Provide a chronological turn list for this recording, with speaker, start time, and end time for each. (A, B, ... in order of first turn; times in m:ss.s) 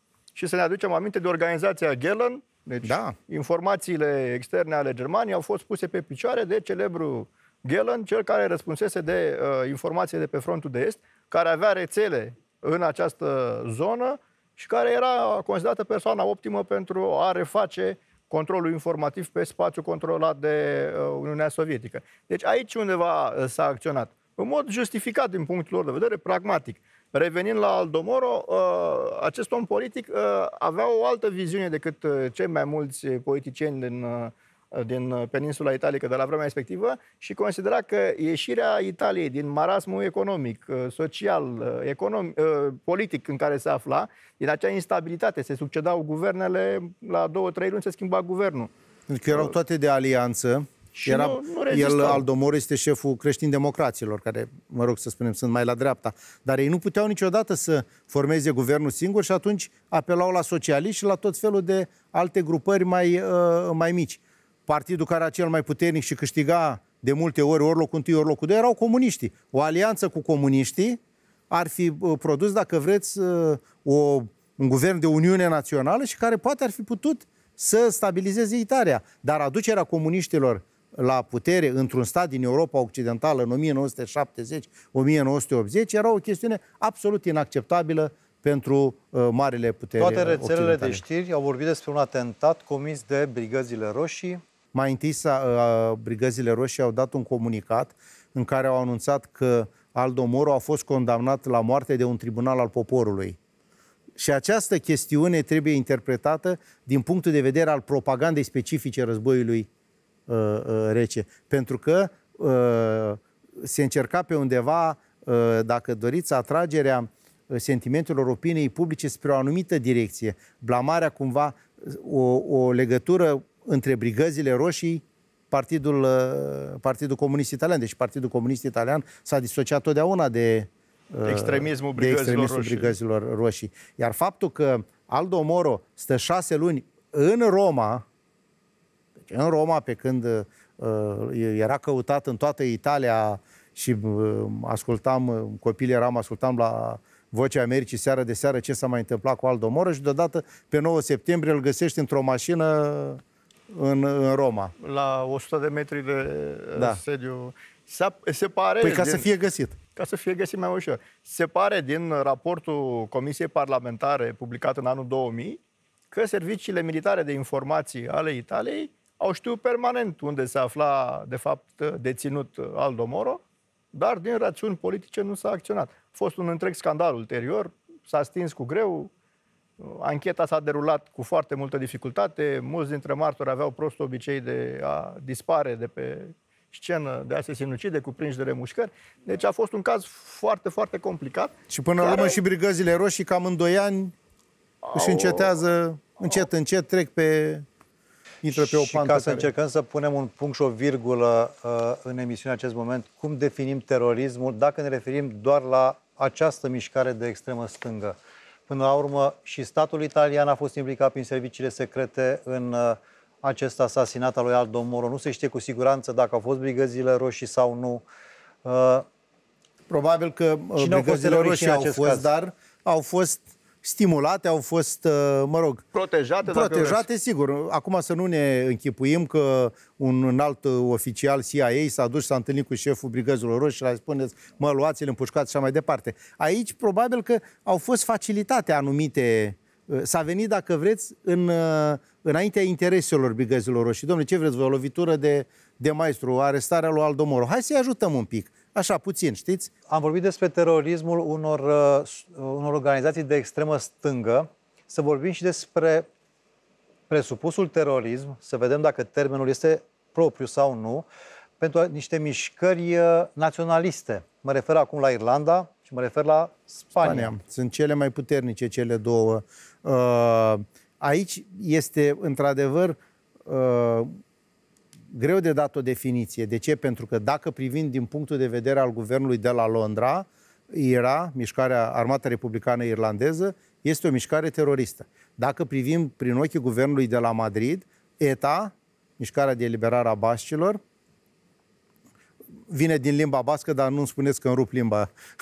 0:00.4-0:48.7 A
0:02.8-0:03.1 B
0:49.1-1:11.0 B
0:51.0-0:52.2 A
1:11.5-1:31.0 B
1:30.0-1:34.4 C
1:34.7-1:43.4 B
1:44.2-1:49.7 B
1:50.3-2:18.0 B
2:11.2-2:12.9 A
2:19.2-2:34.7 B
2:34.8-2:39.3 A
2:38.8-2:39.8 B
2:40.0-2:45.6 A
2:46.1-2:53.4 A
2:53.9-2:59.1 A
2:59.8-3:12.4 A
3:11.7-3:14.1 B
3:14.8-3:15.6 A
3:14.9-3:17.6 B
3:18.4-3:19.5 B
3:18.5-3:28.2 C
3:28.7-3:38.0 C
3:38.6-3:39.0 C
3:39.9-3:45.8 B
3:40.8-3:42.3 C
3:45.9-3:47.0 A
3:46.4-4:09.7 B
4:09.9-4:16.1 C
4:17.1-4:21.0 C
4:21.6-4:27.3 C
4:27.0-4:34.1 B
4:35.1-4:50.8 B
4:52.7-4:55.1 B